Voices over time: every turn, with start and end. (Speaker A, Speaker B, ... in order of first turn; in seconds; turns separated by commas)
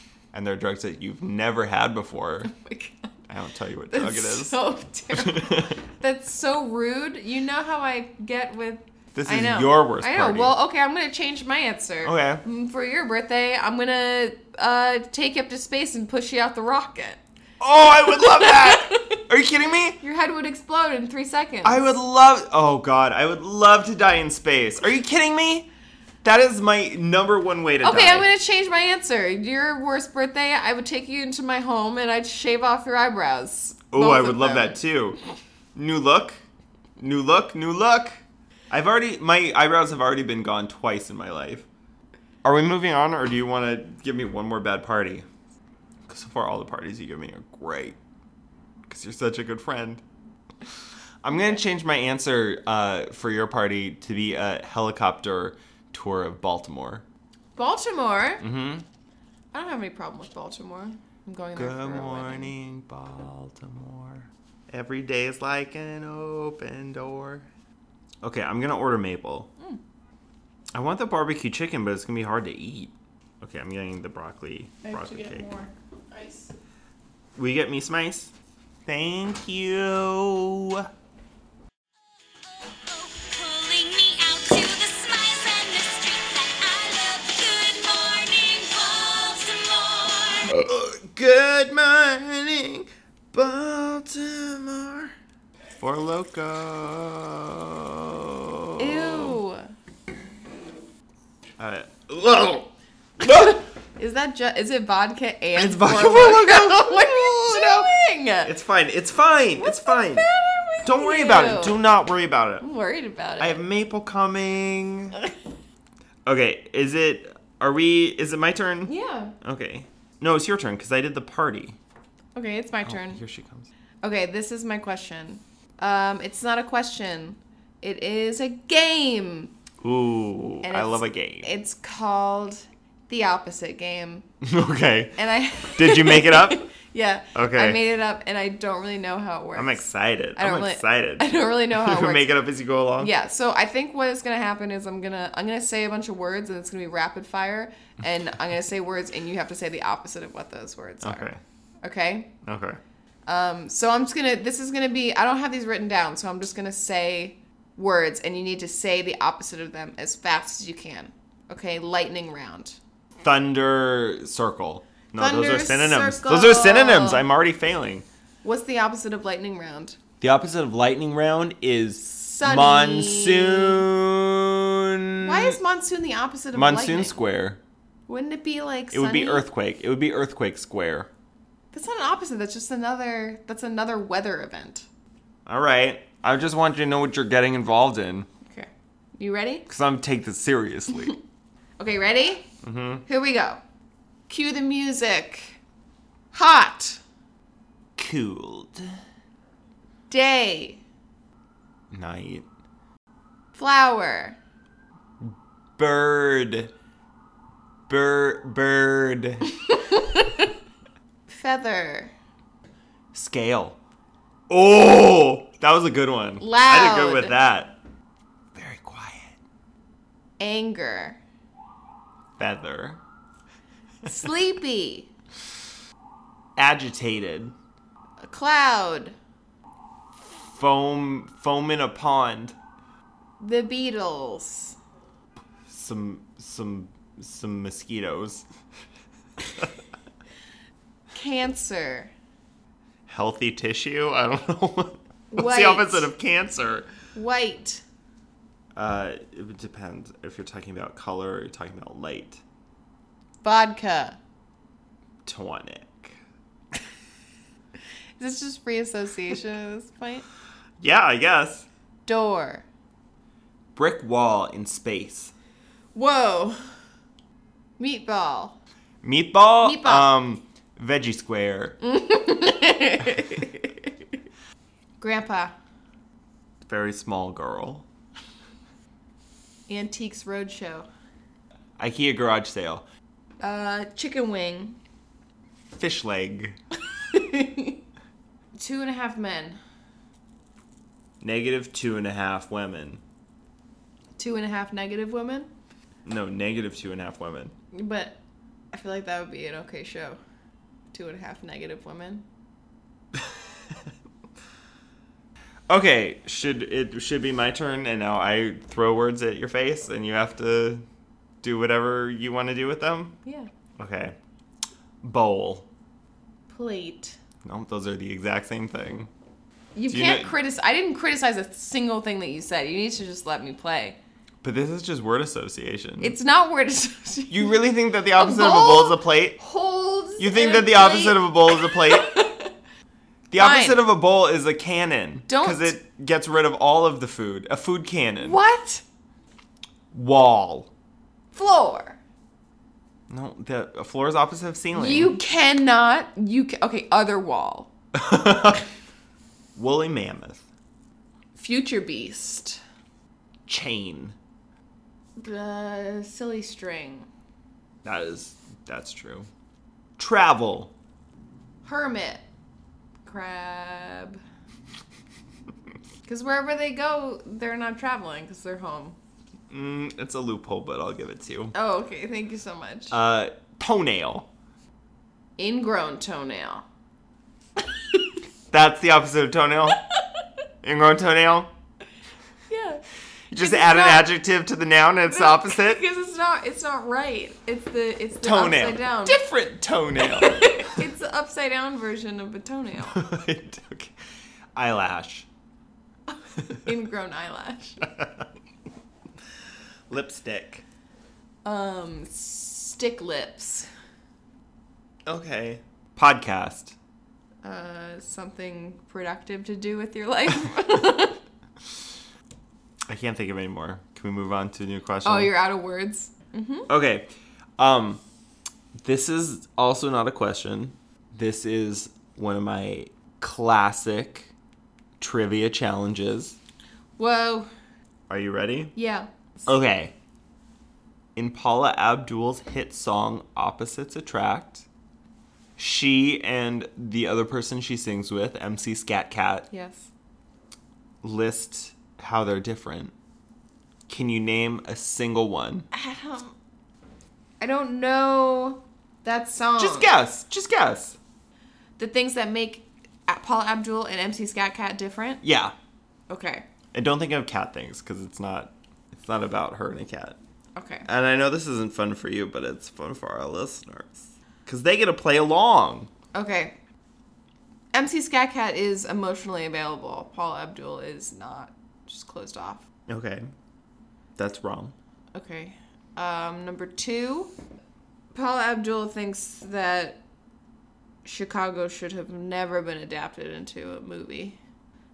Speaker A: 0.3-2.5, Speaker B: 2.5-3.1, Speaker A: 3.3-4.6, Speaker B: 3.9-17.2, Speaker A: 5.1-5.8, Speaker A: 9.2-10.6, Speaker A: 12.0-12.4, Speaker A: 17.6-20.0, Speaker B: 18.1-19.2, Speaker B: 20.0-22.0, Speaker A: 21.6-25.7, Speaker A: 26.2-28.3, Speaker B: 27.8-34.8, Speaker A: 33.9-35.2, Speaker A: 35.8-36.4, Speaker A: 37.0-41.7, Speaker A: 42.4-45.3, Speaker A: 46.1-48.0, Speaker A: 48.9-50.0, Speaker A: 51.2-57.0, Speaker B: 57.6-58.5, Speaker A: 58.4-58.9, Speaker B: 59.5-62.5, Speaker A: 61.6-67.5, Speaker A: 68.2-69.5, Speaker A: 70.7-75.5, Speaker B: 74.8-76.5, Speaker A: 77.4-78.3, Speaker A: 78.9-80.9, Speaker C: 82.5-90.5, Speaker A: 90.5-95.1, Speaker A: 95.8-99.4, Speaker B: 98.8-99.7, Speaker A: 101.6-103.6, Speaker B: 103.2-108.5, Speaker A: 105.5-107.9, Speaker A: 108.4-110.3, Speaker B: 109.6-111.8, Speaker A: 110.8-112.7, Speaker B: 112.6-113.6, Speaker A: 113.4-115.2, Speaker A: 116.2-121.8, Speaker B: 118.9-119.3, Speaker B: 122.3-123.2, Speaker A: 122.8-123.7, Speaker B: 124.0-129.5, Speaker A: 129.8-131.5, Speaker B: 130.6-134.3, Speaker A: 134.4-135.2, Speaker B: 135.2-142.3, Speaker A: 135.8-136.7, Speaker A: 137.3-137.8, Speaker A: 139.6-143.1, Speaker B: 143.0-151.3, Speaker A: 151.0-151.4, Speaker B: 151.8-152.3, Speaker A: 152.4-152.8, Speaker B: 153.3-162.8, Speaker A: 163.2-168.1, Speaker B: 165.2-167.2, Speaker B: 168.4-170.0, Speaker A: 170.2-175.6, Speaker B: 172.1-173.8, Speaker B: 175.2-177.2, Speaker A: 176.5-177.6, Speaker B: 178.1-179.4, Speaker A: 178.9-181.1, Speaker B: 181.7-184.9, Speaker A: 185.5-188.3, Speaker B: 188.4-189.7, Speaker A: 189.7-191.2, Speaker B: 191.8-192.5, Speaker A: 192.6-193.0, Speaker B: 193.1-193.6, Speaker B: 194.3-195.6, Speaker B: 196.3-197.0, Speaker A: 198.0-199.0, Speaker B: 200.1-200.8, Speaker A: 201.9-202.5, Speaker B: 203.6-204.4, Speaker A: 205.2-206.7, Speaker A: 207.9-209.5, Speaker B: 209.7-210.5, Speaker B: 211.3-212.1, Speaker A: 213.1-213.8, Speaker A: 214.5-217.8, Speaker B: 216.4-217.4, Speaker A: 218.6-219.4, Speaker B: 220.4-221.2, Speaker A: 222.4-223.0, Speaker B: 224.1-225.1, Speaker A: 226.6-227.5, Speaker B: 228.2-229.2, Speaker A: 230.3-232.6, Speaker B: 233.4-234.8, Speaker A: 235.7-238.5, Speaker B: 241.1-242.1, Speaker A: 243.1-246.9, Speaker B: 245.3-246.1, Speaker B: 247.1-247.8, Speaker A: 248.8-252.4, Speaker B: 253.4-254.2, Speaker A: 255.2-256.2, Speaker B: 258.2-260.2, Speaker A: 260.8-261.7, Speaker B: 262.1-262.7, Speaker A: 263.8-265.3, Speaker B: 265.9-266.6, Speaker B: 267.8-268.6, Speaker A: 269.0-271.8, Speaker B: 269.6-270.1, Speaker B: 271.8-273.9, Speaker B: 275.0-275.5, Speaker A: 276.6-277.9, Speaker B: 279.7-280.9, Speaker A: 281.8-282.9, Speaker B: 283.4-284.8, Speaker A: 285.7-286.6, Speaker B: 287.1-287.8, Speaker B: 288.6-289.6, Speaker A: 291.2-293.0, Speaker B: 294.2-295.5, Speaker A: 296.1-297.5, Speaker B: 297.7-298.2, Speaker B: 298.7-300.2, Speaker B: 300.9-302.2, Speaker A: 303.1-303.7, Speaker A: 305.7-310.9, Speaker A: 311.4-313.2, Speaker B: 313.2-313.5, Speaker A: 313.8-314.2, Speaker A: 315.0-315.7, Speaker B: 316.5-317.2, Speaker A: 317.4-319.1, Speaker B: 319.8-324.0, Speaker A: 319.9-320.3, Speaker A: 324.4-326.2, Speaker B: 326.0-332.5, Speaker A: 327.3-329.4, Speaker A: 330.2-332.2, Speaker A: 333.3-338.4, Speaker B: 333.4-333.8, Speaker B: 335.3-335.8, Speaker B: 338.2-338.8, Speaker A: 339.9-340.7, Speaker B: 341.3-342.0, Speaker A: 343.1-345.2, Speaker B: 344.7-347.7, Speaker A: 347.9-348.6, Speaker A: 349.6-350.4, Speaker B: 351.4-352.6, Speaker A: 353.5-354.2, Speaker B: 355.2-357.1, Speaker A: 357.8-359.3, Speaker A: 360.0-360.7, Speaker B: 361.6-362.2, Speaker B: 363.1-364.2, Speaker B: 366.1-369.0, Speaker A: 369.5-371.5, Speaker B: 371.5-373.0, Speaker A: 372.9-374.3, Speaker B: 375.4-376.6, Speaker A: 378.5-379.8, Speaker A: 380.6-381.5, Speaker B: 382.5-382.8, Speaker A: 383.3-385.8, Speaker B: 383.4-384.1, Speaker B: 385.1-389.2, Speaker A: 388.2-390.8, Speaker B: 390.0-393.1, Speaker A: 392.9-394.0, Speaker A: 394.6-395.3, Speaker B: 396.4-397.8, Speaker A: 397.8-398.3, Speaker A: 399.9-400.6, Speaker B: 401.4-403.7, Speaker A: 405.1-406.8, Speaker B: 407.4-411.2, Speaker A: 412.9-415.4, Speaker B: 415.0-416.7, Speaker A: 416.7-418.0, Speaker A: 418.8-424.3, Speaker A: 425.0-426.4, Speaker B: 427.0-427.5, Speaker A: 428.1-428.7, Speaker B: 428.8-429.1, Speaker A: 429.5-429.9, Speaker A: 431.1-434.7, Speaker A: 435.6-439.5, Speaker B: 439.5-439.9, Speaker A: 441.0-442.9, Speaker A: 443.9-445.7, Speaker B: 445.7-446.4, Speaker B: 447.4-449.9, Speaker A: 449.6-451.0, Speaker B: 451.8-455.2, Speaker A: 455.2-455.5, Speaker B: 456.1-456.5, Speaker A: 456.7-460.2, Speaker B: 460.6-460.9, Speaker A: 460.9-465.9, Speaker B: 466.1-466.6, Speaker B: 467.7-472.6, Speaker A: 472.9-473.3, Speaker A: 474.2-474.8, Speaker B: 475.1-477.3, Speaker B: 478.1-480.0, Speaker B: 481.1-484.4